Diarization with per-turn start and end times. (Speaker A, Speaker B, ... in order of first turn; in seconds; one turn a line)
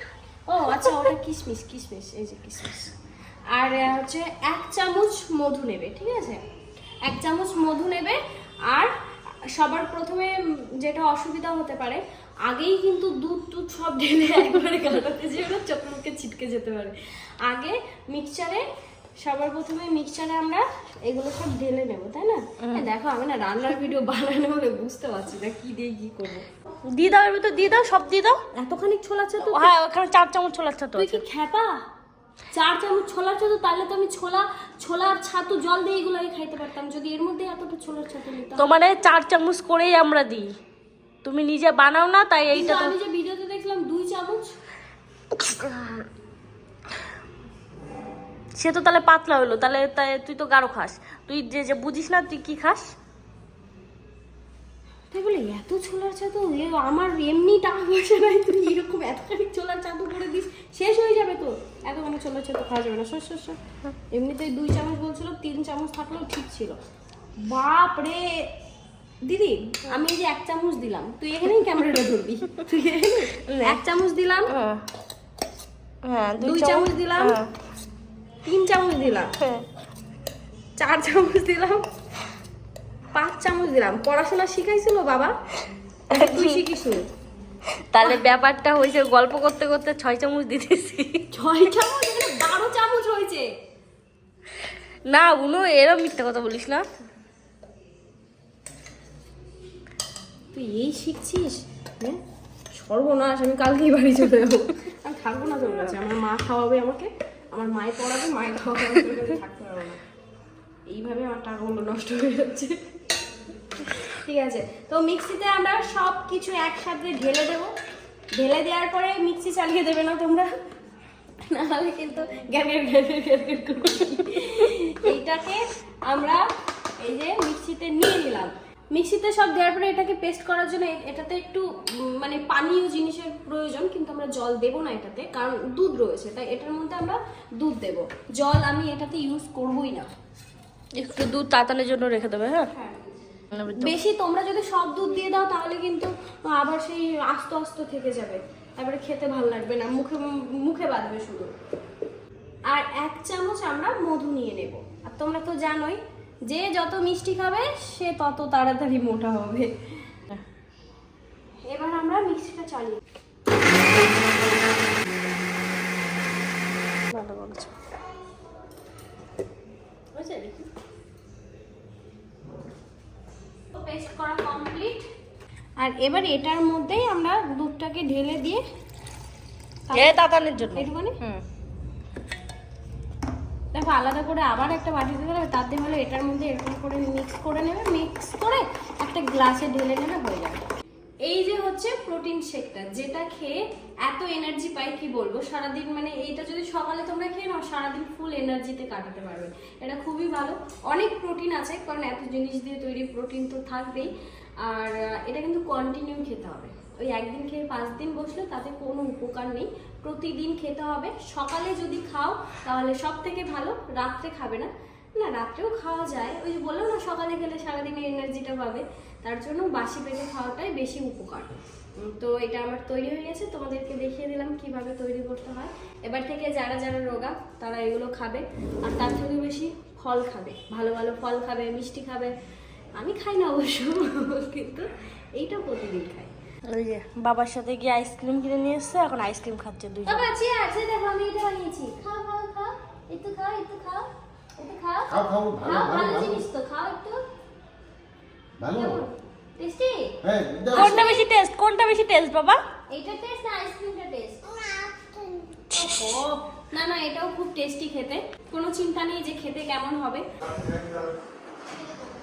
Speaker A: 0.5-2.9
Speaker A: 3.5-6.4
Speaker A: 7.0-8.9
Speaker A: 9.5-16.9
Speaker A: 17.5-18.6
Speaker A: 19.2-26.5
Speaker B: 26.9-28.4
Speaker A: 28.5-29.7
Speaker B: 29.4-31.2
Speaker A: 31.0-31.9
Speaker A: 32.5-38.7
Speaker B: 38.6-40.5
Speaker B: 41.2-42.9
Speaker A: 42.5-44.5
Speaker B: 45.4-46.0
Speaker B: 48.6-52.9
Speaker A: 55.1-63.6
Speaker A: 64.1-66.8
Speaker A: 67.4-68.5
Speaker A: 69.2-74.5
Speaker B: 73.5-73.8
Speaker B: 74.5-74.8
Speaker B: 76.0-77.5
Speaker A: 76.4-77.4
Speaker A: 78.5-79.3
Speaker A: 80.8-81.8
Speaker A: 83.2-85.3
Speaker A: 86.1-87.0
Speaker B: 86.1-86.6
Speaker B: 87.9-91.2
Speaker A: 91.3-93.5
Speaker B: 95.1-96.8
Speaker A: 100.5-102.2
Speaker A: 102.8-110.0
Speaker A: 110.9-112.8
Speaker A: 113.8-117.7
Speaker A: 118.3-120.5
Speaker A: 121.5-126.4
Speaker A: 127.0-140.1
Speaker B: 141.0-142.7
Speaker A: 142.7-143.1
Speaker B: 143.5-143.9
Speaker A: 143.7-151.5
Speaker A: 152.7-159.7
Speaker A: 161.6-163.0
Speaker B: 167.1-167.7
Speaker A: 170.2-170.6
Speaker A: 173.7-175.0
Speaker A: 175.8-178.6
Speaker A: 179.9-180.2
Speaker B: 179.9-181.4
Speaker A: 180.8-181.2
Speaker A: 183.7-190.6
Speaker A: 191.3-204.1
Speaker A: 204.7-232.3
Speaker A: 233.0-236.3
Speaker B: 236.7-240.2
Speaker A: 240.1-244.1
Speaker A: 244.6-247.2
Speaker C: 245.1-246.4
Speaker C: 248.6-249.0
Speaker A: 248.7-250.1
Speaker C: 250.2-250.8
Speaker A: 250.7-251.3
Speaker B: 250.7-252.6
Speaker A: 252.9-254.6
Speaker A: 255.7-260.3
Speaker B: 255.7-256.1
Speaker C: 260.6-261.0